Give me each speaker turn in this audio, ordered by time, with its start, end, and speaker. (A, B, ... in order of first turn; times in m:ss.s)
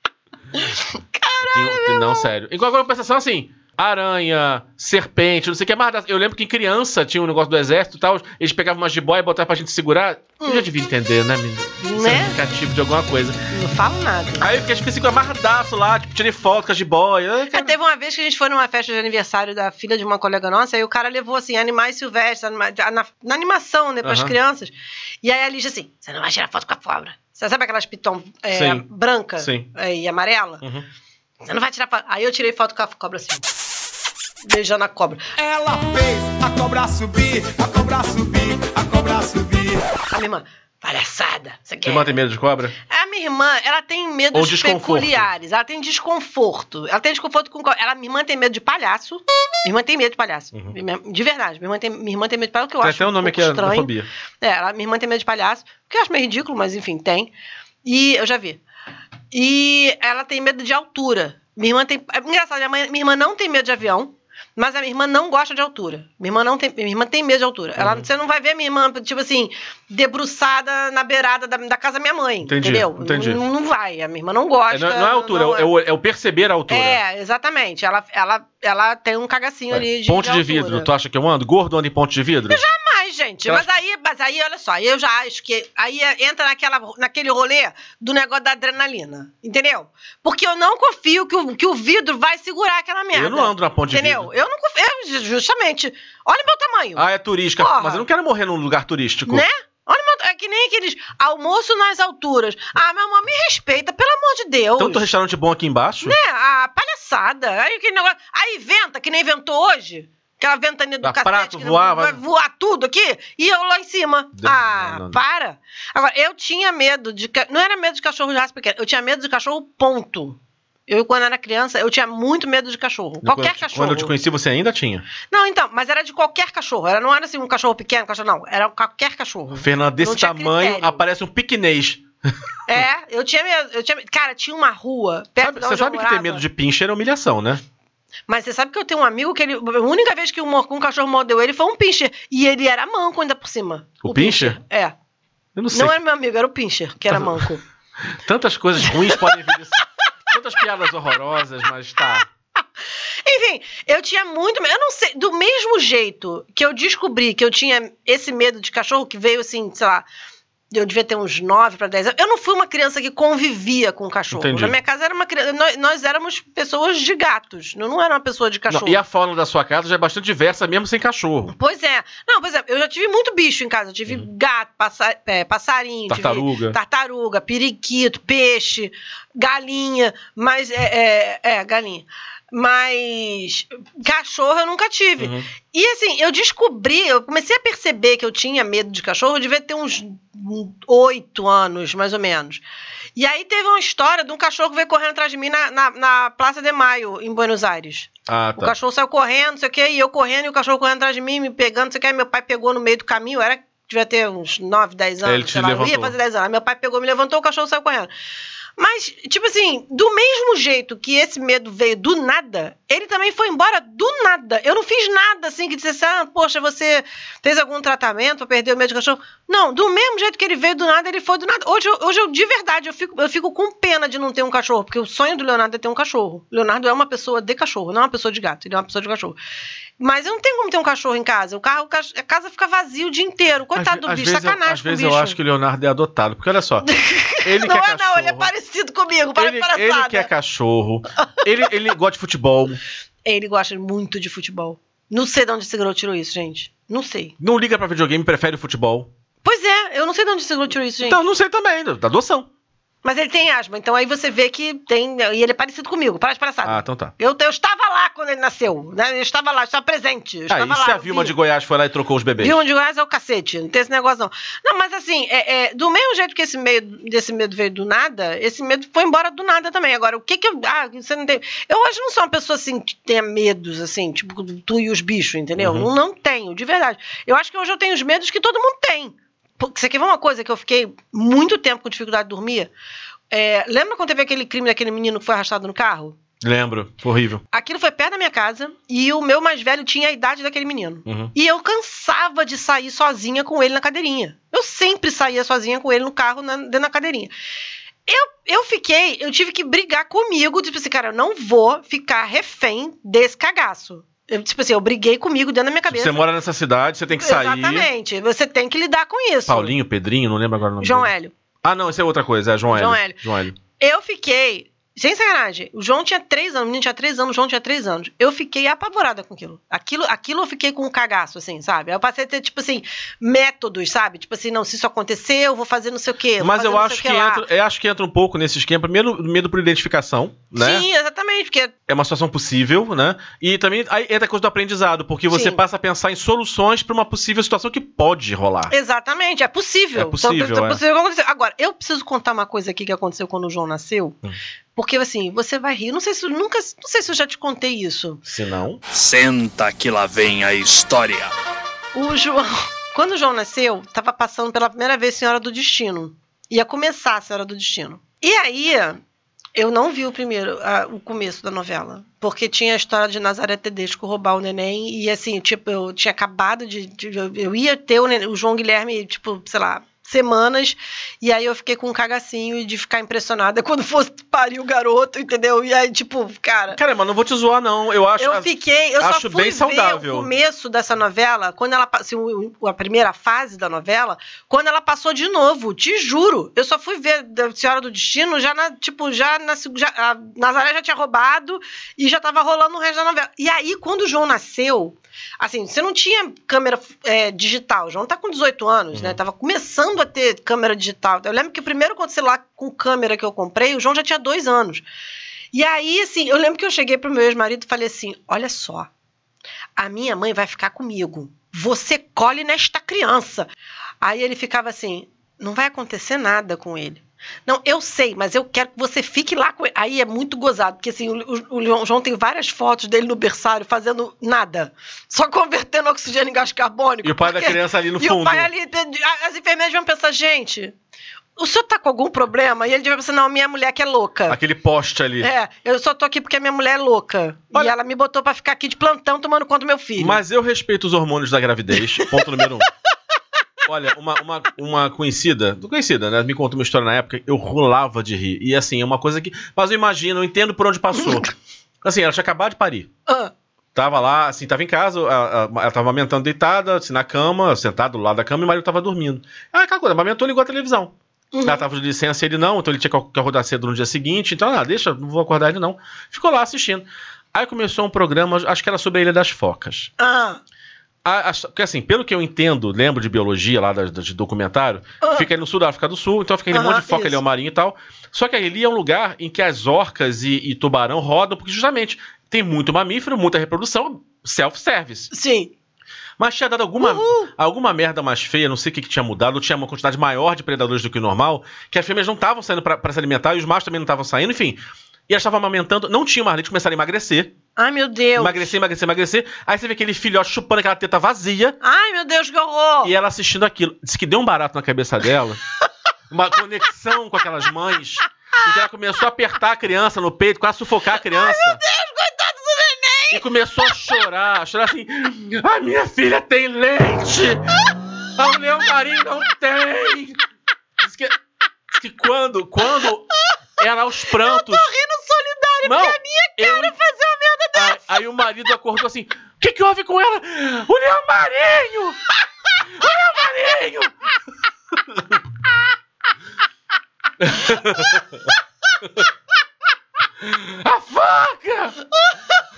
0:00.6-0:02.3 A
0:01.5-0:13.4 B
0:11.8-0:12.4 A
0:13.5-0:14.5 A
0:14.4-0:17.8 B
0:17.5-0:30.6 A
0:24.0-0:24.3 B
0:28.5-0:28.8 B
0:29.4-0:29.7 B
0:31.4-0:33.4 A
0:34.4-0:35.3 A
0:35.4-0:39.9 C
0:40.1-0:42.1 A
0:41.8-0:42.8 B
0:42.9-0:53.9 A
0:44.3-0:45.3 B
0:52.8-0:54.1 B
0:54.4-0:57.3 A
0:57.8-0:58.6 A
0:59.3-1:15.7 A
1:07.8-1:08.0 B
1:12.4-1:13.4 B
1:14.7-1:17.0 B
1:16.7-1:20.9 A
1:19.7-1:22.6 B
1:22.5-1:37.0 A
1:33.1-1:34.3 B
1:37.0-1:39.4 B
1:37.6-1:38.0 A
1:39.3-1:45.1 A
1:44.8-1:46.2 B
1:46.0-2:04.1 A
1:51.0-1:52.2 B
1:54.4-1:55.2 B
2:03.2-2:05.1 B
2:05.3-2:11.0 A
2:09.6-2:12.0 B
2:12.7-2:16.4 A
2:15.4-2:17.6 B
2:18.3-2:24.9 A
2:24.0-2:24.6 B
2:25.6-2:26.0 B
2:25.7-2:27.6 A
2:27.1-2:27.4 B
2:28.2-2:29.8 B
2:30.3-2:32.2 B
2:33.3-2:40.0 A
2:40.7-2:49.0 A
2:44.3-2:44.8 B
2:48.7-2:51.5 B
2:51.5-3:12.6 A
2:56.1-2:56.8 B
3:05.2-3:05.5 B
3:13.2-3:28.1 A
3:18.3-3:18.7 B
3:25.2-3:26.2 B
3:28.8-3:49.4 A
3:50.0-3:55.4 A
3:53.8-3:56.9 B
3:56.9-4:00.3 A
3:57.4-3:58.5 B
3:59.4-4:02.8 B
4:03.3-4:07.3 A
4:07.4-4:09.1 B
4:09.4-4:11.2 A
4:11.0-4:12.5 B
4:13.0-4:21.3 A
4:16.6-4:17.1 B
4:20.5-4:22.6 B
4:22.4-4:42.7 A
4:35.6-4:35.9 B
4:43.3-4:46.2 A
4:46.4-4:47.4 B
4:47.5-4:57.3 A
4:51.1-4:51.3 B
4:58.1-5:06.2 A
5:05.9-5:07.9 B
5:07.2-5:09.8 A
5:09.5-5:11.1 B
5:10.8-5:11.3 A
5:11.6-5:13.6 B
5:12.7-5:13.2 A
5:13.8-5:27.4 A
5:26.4-5:30.8 B
5:30.6-5:31.7 A
5:31.9-5:38.7 B
5:35.3-5:35.6 A
5:38.7-5:44.2 A
5:40.0-5:40.8 B
5:44.8-5:48.2 A
5:48.3-5:48.8 B
5:48.9-5:51.3 D
5:52.0-5:59.0 A
5:59.6-6:16.8 A
6:16.7-6:20.3 B
6:18.2-6:44.8 A
6:45.5-6:48.9 A
6:49.8-6:53.5 A
6:54.0-7:10.8 A
7:07.0-7:08.5 B
7:11.4-7:14.4 A
7:14.3-7:15.3 B
7:15.2-7:20.2 A
7:20.0-7:22.7 B
7:23.7-7:31.3 B
7:31.8-7:32.9 B
7:33.1-7:33.3 A
7:33.8-7:49.9 B
7:41.3-7:41.6 A
7:50.0-7:50.4 A
7:51.0-8:05.1 B
7:55.0-7:55.3 A
7:56.5-7:57.2 A
8:05.1-8:05.5 A
8:06.2-8:14.6 B
8:06.8-8:07.3 A
8:15.1-8:17.3 B
8:17.6-8:18.5 A
8:18.2-8:21.6 B
8:21.6-8:22.9 A
8:22.8-8:25.4 B
8:26.1-8:31.6 B
8:31.0-8:33.2 A
8:33.1-8:37.4 B
8:38.2-8:40.2 B
8:40.8-8:41.2 B
8:41.8-8:44.7 B
8:44.2-8:48.0 A
8:45.6-8:46.7 B
8:47.6-8:52.0 B
8:52.7-8:53.9 B
8:57.2-8:58.2 B
9:00.2-9:01.8 B